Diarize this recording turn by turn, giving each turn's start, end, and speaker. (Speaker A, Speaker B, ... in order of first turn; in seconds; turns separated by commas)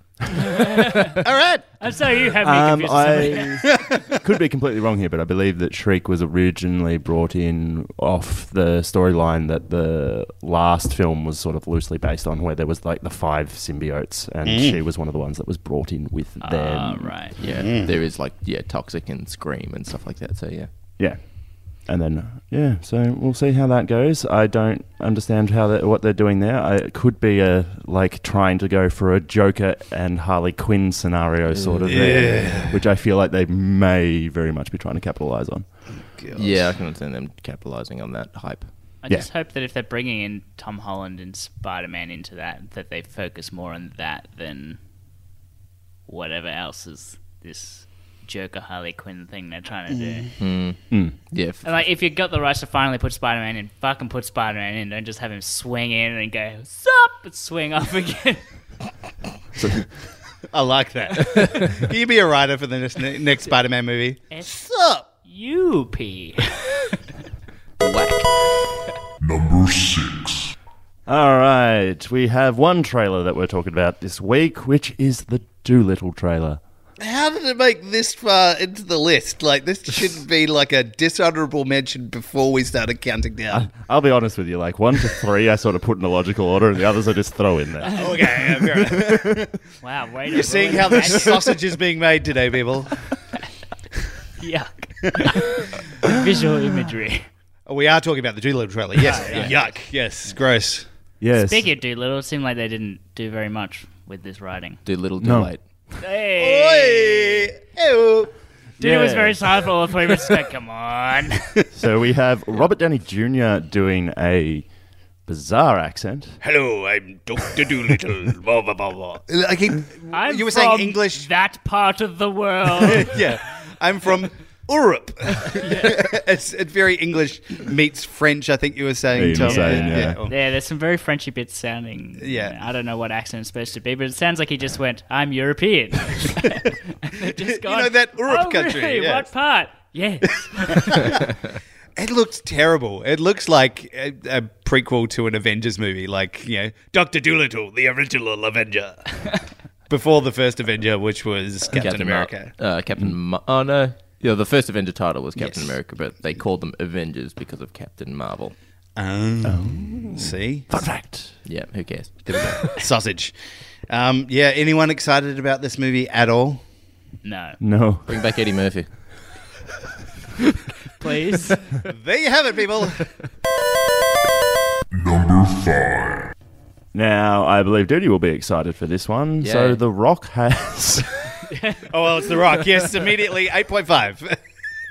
Speaker A: 0.4-1.2, Speaker B: 1.2-1.7, Speaker A: 1.8-3.6, Speaker C: 2.4-17.4, Speaker B: 3.7-4.2, Speaker B: 14.4-14.8, Speaker A: 16.4-17.4, Speaker D: 17.4-20.7, Speaker B: 17.5-17.9, Speaker C: 21.0-35.7, Speaker D: 31.5-32.5, Speaker B: 31.9-32.8, Speaker B: 36.1-36.7, Speaker D: 36.3-38.7, Speaker A: 39.0-44.8, Speaker A: 46.1-50.3, Speaker B: 50.0-50.3, Speaker D: 50.4-51.8, Speaker C: 50.9-51.2, Speaker A: 51.6-58.4, Speaker C: 59.5-59.9, Speaker B: 60.5-65.0, Speaker A: 65.0-67.0, Speaker D: 67.8-68.3, Speaker E: 69.2-70.5, Speaker C: 71.1-76.6, Speaker B: 77.0-83.7, Speaker C: 83.5-89.4, Speaker B: 87.9-89.6, Speaker A: 89.8-91.5, Speaker B: 90.3-93.1, Speaker A: 94.4-97.3, Speaker B: 97.7-100.9, Speaker A: 99.0-99.8, Speaker D: 99.3-99.6, Speaker C: 101.2-101.7, Speaker A: 101.3-104.8, Speaker D: 104.8-105.6, Speaker C: 105.2-105.5, Speaker A: 106.0-107.5, Speaker B: 106.4-108.3, Speaker C: 108.8-109.4, Speaker A: 108.8-111.5, Speaker C: 111.7-114.7, Speaker C: 115.3-116.4, Speaker B: 116.4-121.3, Speaker A: 120.1-123.2, Speaker B: 122.8-130.4, Speaker A: 125.5-126.0, Speaker C: 129.1-130.2, Speaker A: 129.4-141.1, Speaker B: 132.2-132.6, Speaker B: 137.3-139.3, Speaker B: 140.7-141.4, Speaker B: 142.0-152.5, Speaker D: 151.8-158.6, Speaker B: 155.4-155.7, Speaker B: 159.0-160.8, Speaker C: 159.4-161.4, Speaker D: 161.4-162.2, Speaker B: 162.2-163.4, Speaker B: 163.9-166.6, Speaker A: 167.2-167.6, Speaker C: 167.6-168.1, Speaker D: 168.1-169.1, Speaker A: 171.0-171.6, Speaker B: 171.8-173.1, Speaker E: 174.9-176.3, Speaker C: 176.9-181.3, Speaker D: 179.4-179.8, Speaker A: 181.5-181.9, Speaker B: 181.9-184.4